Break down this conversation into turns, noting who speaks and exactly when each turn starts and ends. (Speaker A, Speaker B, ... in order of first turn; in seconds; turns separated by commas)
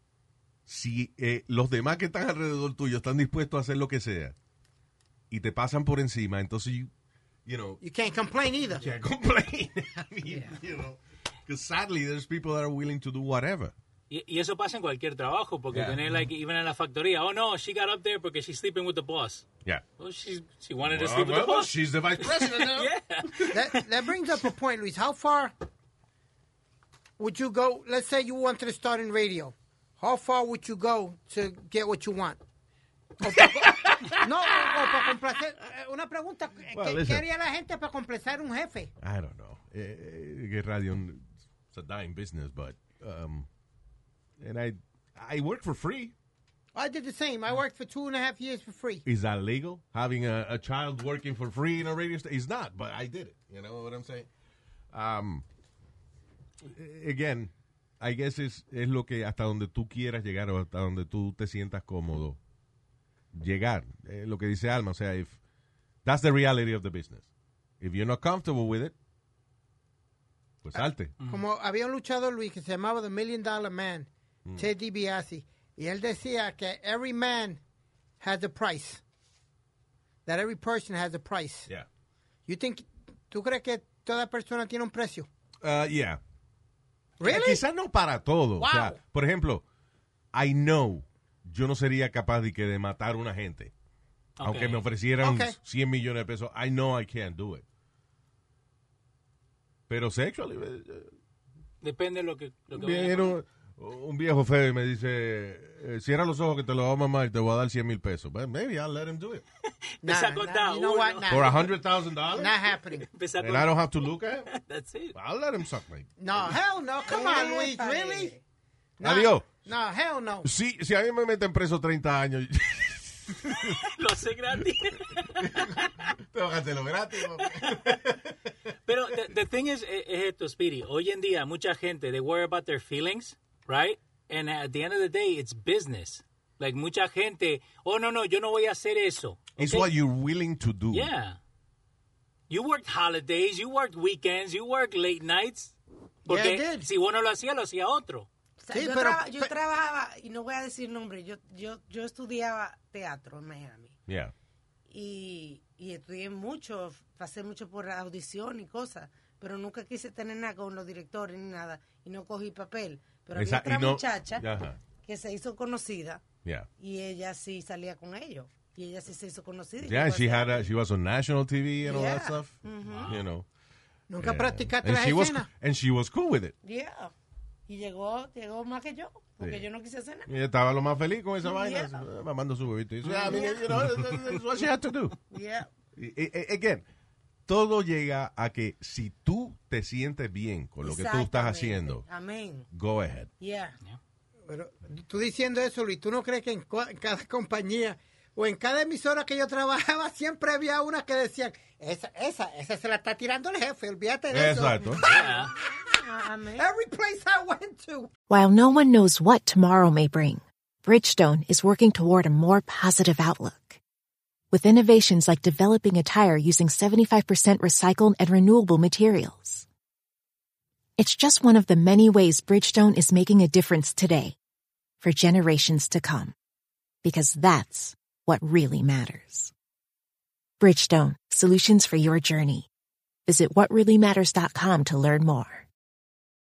Speaker A: 0.7-4.3, Speaker A: 5.3-6.9, Speaker A: 7.5-7.8, Speaker B: 7.8-8.9, Speaker A: 8.8-13.7, Speaker C: 10.3-10.6, Speaker D: 14.1-19.5, Speaker A: 15.7-16.1, Speaker D: 20.0-23.8, Speaker A: 20.8-23.6, Speaker B: 23.5-25.5, Speaker B: 27.2-32.4, Speaker B: 33.2-38.9, Speaker A: 33.5-34.1, Speaker A: 36.7-37.2, Speaker A: 39.0-43.5, Speaker A: 44.4-46.1, Speaker B: 46.8-49.0, Speaker A: 49.0-54.3, Speaker A: 54.9-55.5, Speaker A: 56.6-62.4, Speaker A: 63.3-65.4, Speaker A: 66.0-67.3, Speaker A: 67.8-69.0, Speaker A: 70.6-71.1, Speaker B: 70.8-77.6, Speaker D: 71.2-71.5, Speaker B: 78.2-79.0, Speaker B: 80.3-81.7, Speaker B: 82.5-85.3, Speaker A: 85.6-86.2, Speaker B: 87.2-87.6, Speaker A: 87.2-89.7, Speaker B: 88.6-89.0, Speaker A: 90.3-93.7, Speaker D: 94.4-94.8, Speaker A: 94.4-97.7, Speaker B: 95.2-95.6, Speaker A: 99.9-101.1, Speaker D: 101.8-103.4, Speaker A: 102.7-109.4, Speaker D: 110.0-111.5, Speaker B: 110.0-111.7, Speaker A: 111.3-112.6, Speaker B: 112.3-113.1, Speaker D: 113.0-115.2, Speaker A: 113.4-114.5, Speaker A: 115.1-116.6, Speaker B: 116.2-118.3, Speaker C: 117.0-118.4, Speaker A: 119.0-119.7, Speaker B: 119.0-120.5, Speaker A: 120.4-123.8, Speaker D: 123.6-126.1, Speaker A: 125.3-128.4, Speaker D: 127.4-127.9, Speaker D: 128.9-139.9, Speaker A: 139.6-141.1, Speaker D: 140.9-141.4, Speaker D: 142.5-145.8, Speaker B: 146.3-146.9, Speaker D: 146.3-148.3, Speaker C: 148.6-154.0, Speaker B: 148.7-149.5, Speaker A: 154.1-154.3, Speaker C: 154.9-164.5, Speaker A: 163.3-164.8, Speaker C: 165.0-166.2, Speaker C: 166.8-170.7, Speaker A: 169.8-173.5, Speaker C: 171.8-173.2, Speaker D: 172.9-173.2, Speaker B: 174.1-175.5, Speaker A: 174.2-176.6, Speaker C: 176.6-177.1, Speaker C: 177.7-180.3, Speaker A: 179.4-179.7, Speaker A: 180.3-185.2, Speaker C: 181.4-182.1, Speaker D: 183.1-184.2, Speaker C: 183.2-183.6, Speaker C: 185.3-185.7, Speaker A: 186.0-186.8, Speaker A: 187.5-192.1, Speaker C: 190.8-192.7, Speaker A: 192.7-193.3, Speaker C: 193.4-193.8, Speaker B: 194.5-205.5, Speaker A: 204.3-205.0, Speaker D: 205.0-205.5, Speaker C: 205.8-206.7, Speaker B: 206.6-208.1, Speaker E: 208.3-213.8, Speaker E: 214.5-219.7, Speaker E: 221.0-224.4, Speaker E: 225.0-226.3, Speaker E: 227.0-229.5, Speaker E: 230.6-232.7, Speaker E: 233.3-235.7